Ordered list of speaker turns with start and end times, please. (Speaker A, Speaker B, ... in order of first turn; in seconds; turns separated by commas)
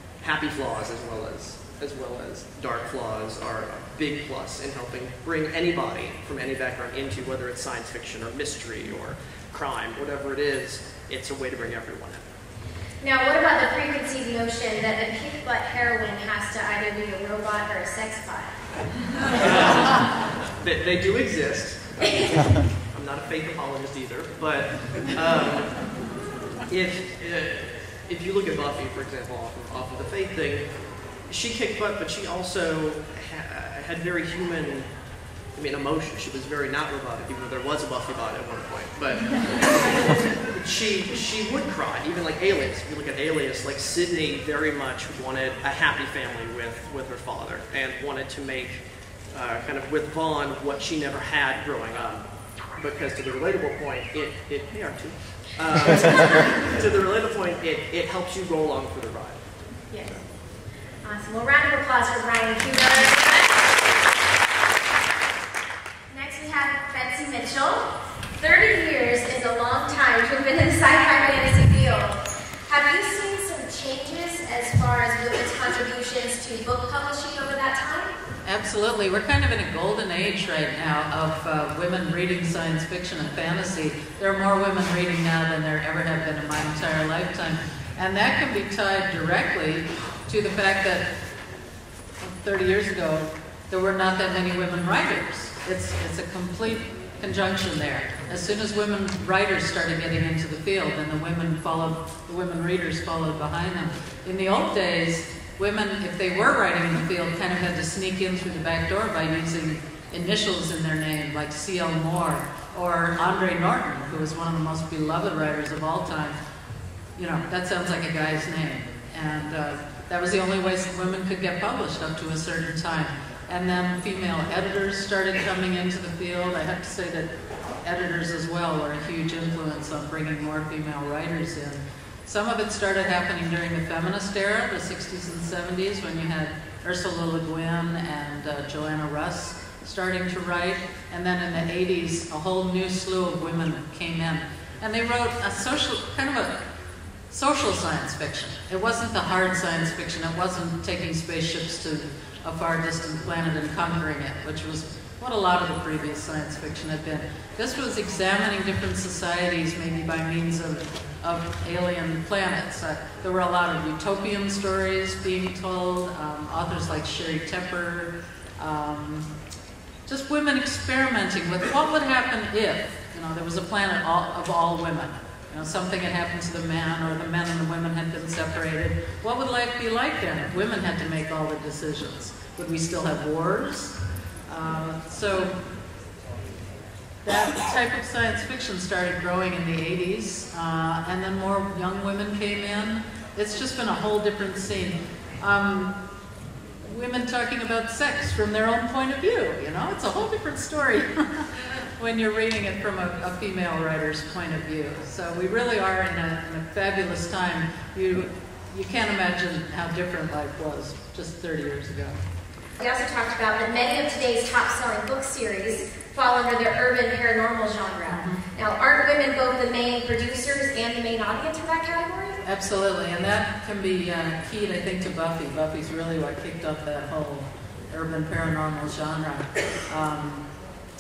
Speaker A: 0.2-12.3, Speaker B: 13.0-18.6, Speaker A: 19.4-26.0, Speaker B: 22.1-22.4, Speaker A: 26.7-30.6, Speaker A: 31.3-34.9, Speaker A: 35.5-59.4, Speaker B: 59.9-60.2, Speaker B: 61.0-63.6, Speaker B: 66.1-67.9, Speaker B: 68.4-78.1, Speaker C: 78.5-91.1, Speaker C: 92.2-116.4, Speaker C: 117.2-146.6, Speaker C: 147.3-169.3, Speaker C: 170.1-183.9, Speaker C: 184.5-185.6, Speaker C: 187.2-195.9, Speaker C: 196.8-212.2, Speaker B: 212.8-222.4, Speaker C: 218.1-218.4, Speaker C: 222.4-230.5